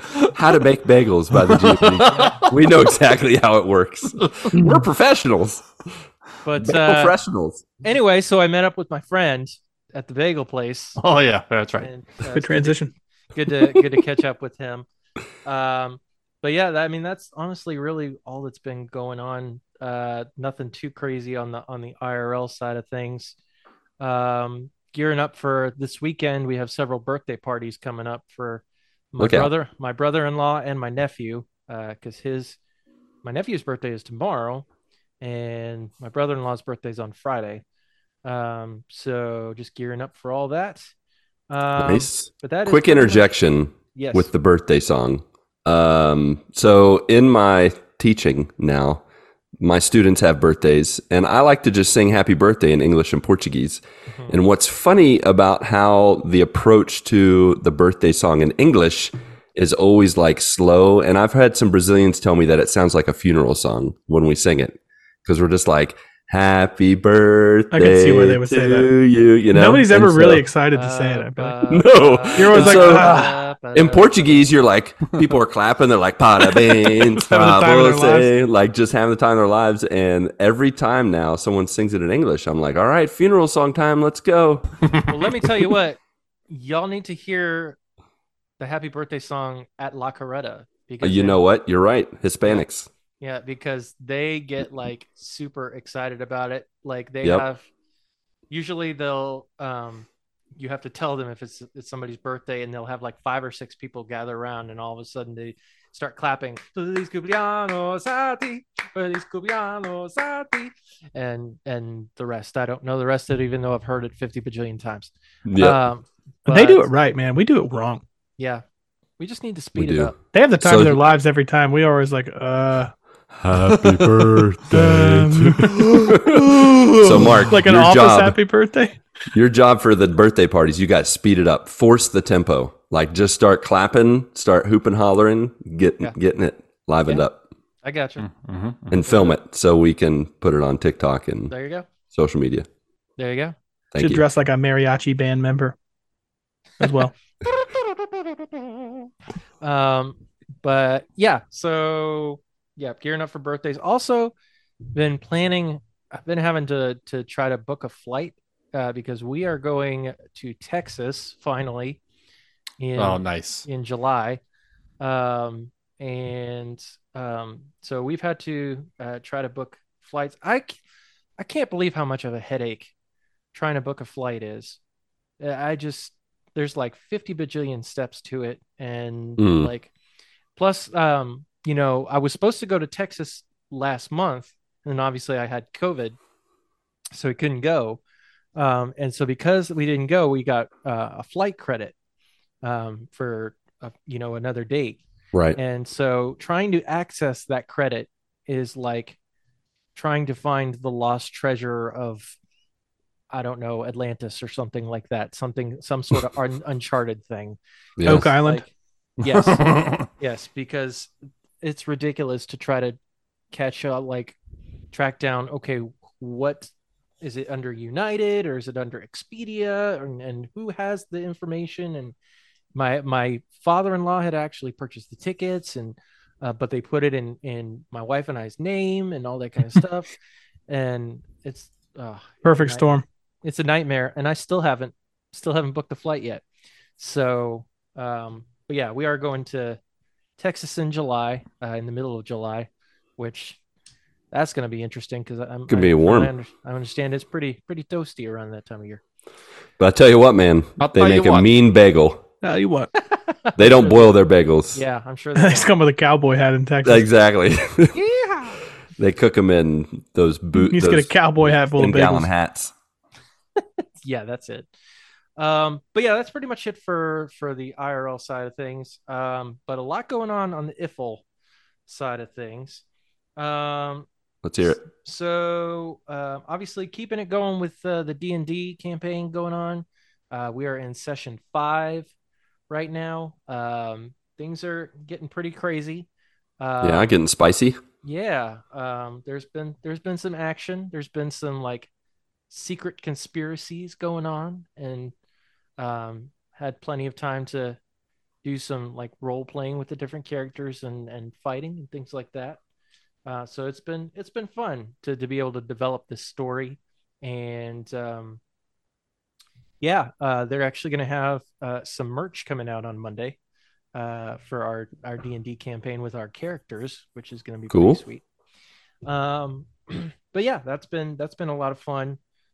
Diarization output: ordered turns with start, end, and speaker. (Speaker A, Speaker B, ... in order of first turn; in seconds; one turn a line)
Speaker A: 0.3-5.8
Speaker B: 1.4-2.5
Speaker C: 4.5-4.8
Speaker D: 6.4-7.2
Speaker A: 6.6-7.7
Speaker D: 7.8-11.0
Speaker B: 11.0-11.9
Speaker D: 11.8-14.8
Speaker C: 12.3-12.9
Speaker D: 15.4-23.4
Speaker D: 24.0-32.6
Speaker A: 29.2-29.5
Speaker D: 33.2-34.6
Speaker D: 35.2-37.6
Speaker D: 38.2-40.9
Speaker D: 41.5-43.3
Speaker A: 41.8-49.0
Speaker D: 43.9-44.3
Speaker A: 49.6-70.4
Speaker D: 54.1-54.4
Speaker C: 67.7-68.9
Speaker C: 69.5-71.6
Speaker D: 70.7-74.5
Speaker A: 71.7-73.2
Speaker C: 72.3-73.4
Speaker A: 73.7-84.8
Speaker C: 77.1-78.3
Speaker D: 85.1-87.8
Speaker D: 88.6-91.4
Speaker A: 91.0-92.9
Speaker D: 93.2-97.6
Speaker D: 98.5-116.9
Speaker A: 115.4-115.8
Speaker C: 116.5-118.0
Speaker D: 118.4-118.6
Speaker D: 119.2-120.2
Speaker A: 119.8-121.0
Speaker C: 120.3-122.9
Speaker A: 123.4-128.4
Speaker B: 123.7-124.4
Speaker C: 124.7-129.0
Speaker A: 129.3-137.4
Speaker D: 137.8-138.3
Speaker B: 138.2-138.9
Speaker A: 138.9-141.5
Speaker D: 141.5-141.9
Speaker A: 142.1-142.7
Speaker D: 143.2-143.5
Speaker A: 143.9-144.2
Speaker C: 144.0-145.8
Speaker C: 146.8-147.1
Speaker D: 147.4-148.9
Speaker D: 149.6-154.3
Speaker D: 154.9-162.0
Speaker D: 162.8-164.4
Speaker B: 163.0-163.7
Speaker D: 165.0-170.8
Speaker D: 171.4-172.9
Speaker D: 173.5-174.8
Speaker D: 175.4-179.9
Speaker A: 179.4-179.7
Speaker D: 180.6-186.2
Speaker D: 187.1-188.0
Speaker D: 188.6-191.9
Speaker D: 192.6-195.0
Speaker A: 195.3-195.6
Speaker D: 195.5-199.2
Speaker D: 199.9-202.4
Speaker D: 203.3-207.6
Speaker A: 208.0-208.3
Speaker C: 208.0-208.6
Speaker D: 208.1-208.7
Speaker B: 209.2-210.1
Speaker D: 209.2-213.0
Speaker D: 213.5-214.3
Speaker D: 214.9-222.1
Speaker D: 222.7-230.1
Speaker D: 230.7-232.9
Speaker C: 232.4-233.0
Speaker D: 233.4-236.4
Speaker D: 237.0-239.8
Speaker D: 240.4-243.6
Speaker D: 244.3-249.0
Speaker A: 245.7-246.3
Speaker A: 249.8-252.2
Speaker B: 250.8-251.5
Speaker C: 252.4-252.9
Speaker D: 253.1-254.2
Speaker A: 253.6-254.8
Speaker D: 254.7-255.7
Speaker C: 255.4-257.1
Speaker A: 256.8-258.0
Speaker D: 257.9-258.6
Speaker A: 259.0-262.7
Speaker C: 260.5-262.3
Speaker D: 264.0-264.7
Speaker D: 265.4-271.2
Speaker D: 271.9-272.8
Speaker D: 273.4-274.1
Speaker A: 274.4-274.8
Speaker D: 274.6-282.1
Speaker D: 282.7-286.1
Speaker D: 286.6-287.1
Speaker A: 286.8-287.8
Speaker D: 288.0-291.9
Speaker D: 292.5-295.1
Speaker D: 295.8-297.8
Speaker D: 298.4-302.6
Speaker D: 303.2-308.4
Speaker D: 309.8-313.4
Speaker D: 313.9-318.2
Speaker A: 317.7-318.0
Speaker D: 319.0-322.2